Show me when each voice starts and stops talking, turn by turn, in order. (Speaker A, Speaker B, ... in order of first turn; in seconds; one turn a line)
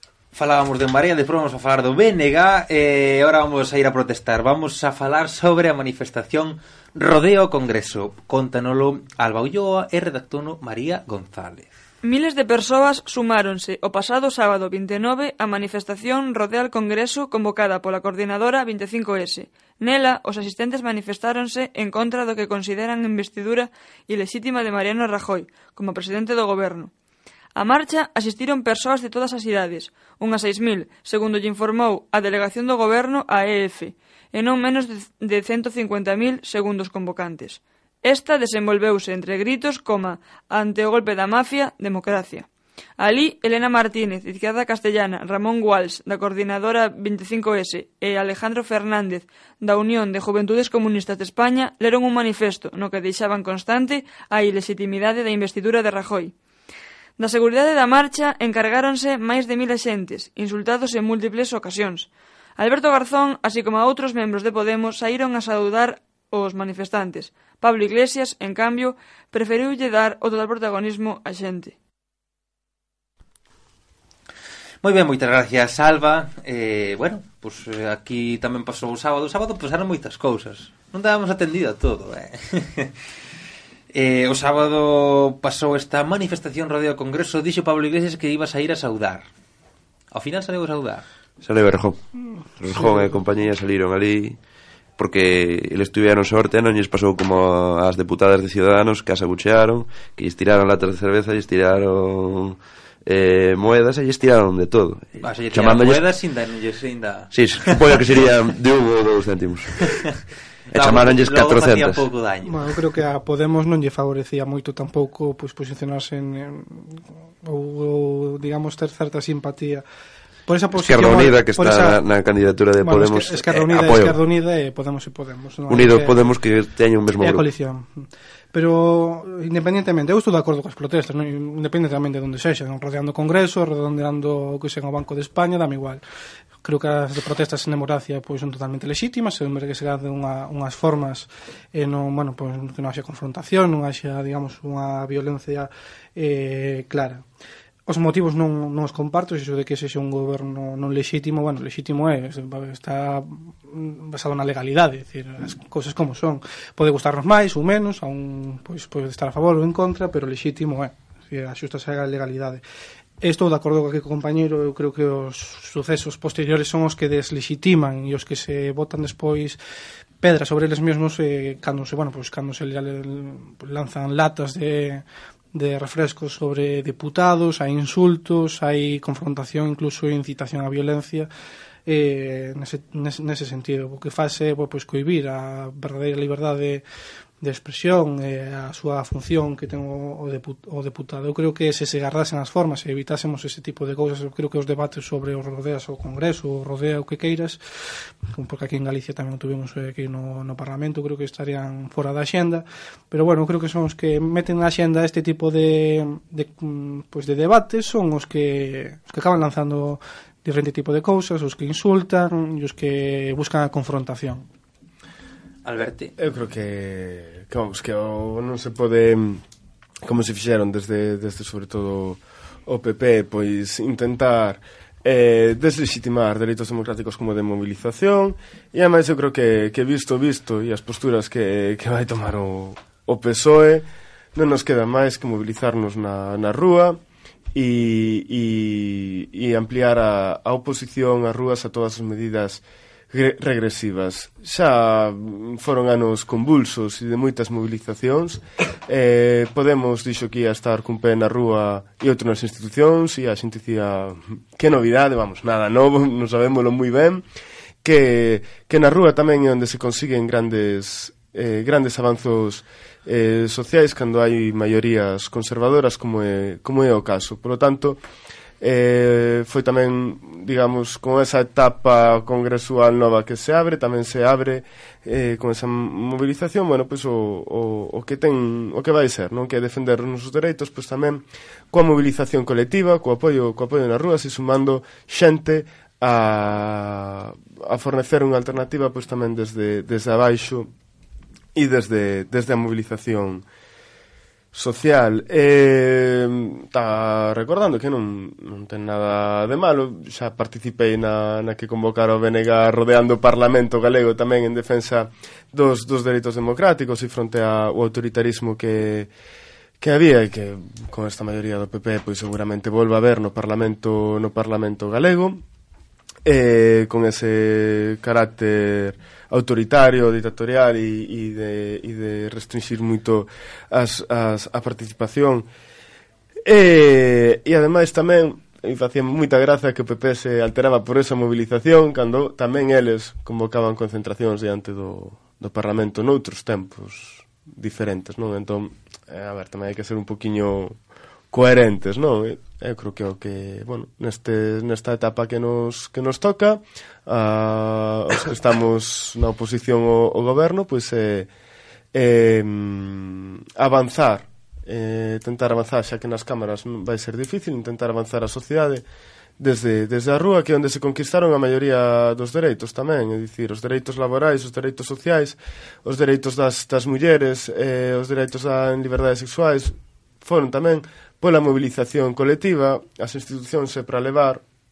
Speaker A: 0.3-11.7
Speaker B: 12.0-26.9
Speaker B: 27.6-42.5
Speaker B: 43.0-56.3
Speaker B: 57.2-71.8
Speaker A: 74.8-83.0
Speaker A: 83.9-89.3
Speaker A: 90.1-91.0
Speaker C: 91.4-92.0
Speaker C: 92.6-94.4
Speaker C: 95.0-106.0
Speaker A: 105.2-107.8
Speaker C: 107.3-109.9
Speaker A: 110.7-112.6
Speaker C: 110.7-112.0
Speaker D: 112.4-119.8
Speaker D: 120.5-122.0
Speaker C: 120.8-124.2
Speaker D: 122.8-126.4
Speaker C: 125.7-127.5
Speaker D: 127.2-136.0
Speaker D: 136.6-147.2
Speaker D: 147.9-162.6
Speaker D: 163.2-169.6
Speaker D: 170.2-181.3
Speaker D: 181.9-186.8
Speaker D: 187.4-197.6
Speaker D: 198.3-214.4
Speaker A: 215.7-216.1
Speaker E: 216.2-219.4
Speaker E: 220.0-237.0
Speaker E: 237.5-257.2
Speaker E: 257.8-268.0
Speaker E: 268.6-290.7
Speaker E: 291.6-293.5
Speaker E: 294.5-309.1
Speaker E: 309.8-315.4
Speaker E: 316.2-325.5
Speaker E: 326.4-340.8
Speaker E: 341.3-351.3
Speaker E: 351.9-358.9
Speaker E: 359.4-374.4